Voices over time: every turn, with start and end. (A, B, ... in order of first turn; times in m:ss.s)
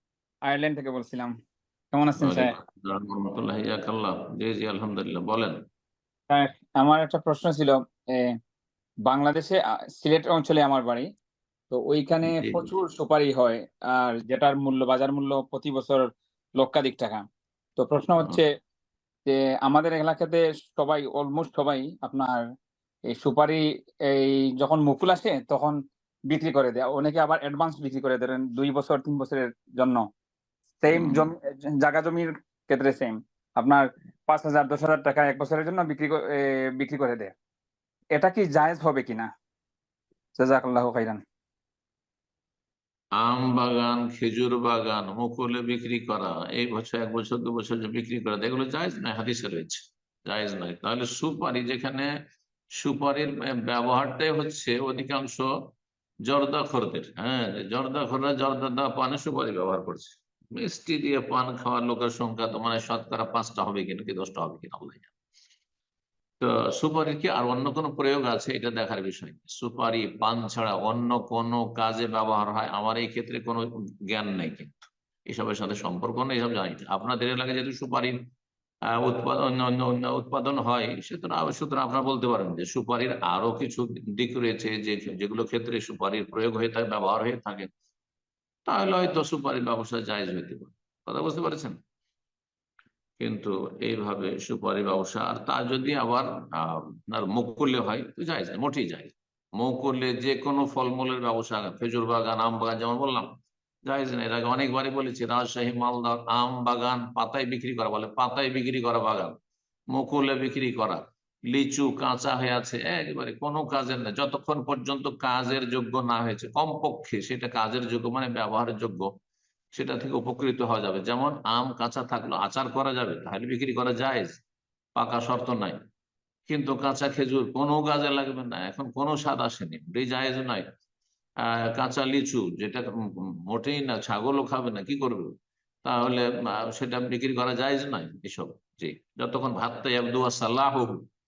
0:00.5-0:01.3 A
0:01.9-0:02.5 A
0:02.2-0:05.6 B
0:06.3-0:08.3 A
0:09.1-0:11.1 A
0:11.7-0:16.0 A
0:12.2-0:12.7 B
0:16.6-0:17.2 A
0:17.8-0:18.5 A
0:19.2-0:22.4 A
0:23.1-0:25.8 A
0:26.3-0:30.0 A
0:30.8-0:37.3 A
0:30.9-0:31.3 B
0:38.2-0:39.3 A
0:40.4-0:41.2 A
0:43.2-0:52.1 B
0:52.8-0:55.5 B
0:56.2-1:05.1 B
1:06.4-1:18.2 B
1:18.9-1:27.7 B
1:28.7-1:31.8 B
1:33.2-1:43.3 B
1:43.8-1:49.3 B
1:49.9-1:59.1 B
1:59.7-2:04.4 B
2:05.0-2:05.8 B
2:06.5-2:10.6 B
2:11.4-2:15.3 B
2:15.8-2:21.0 B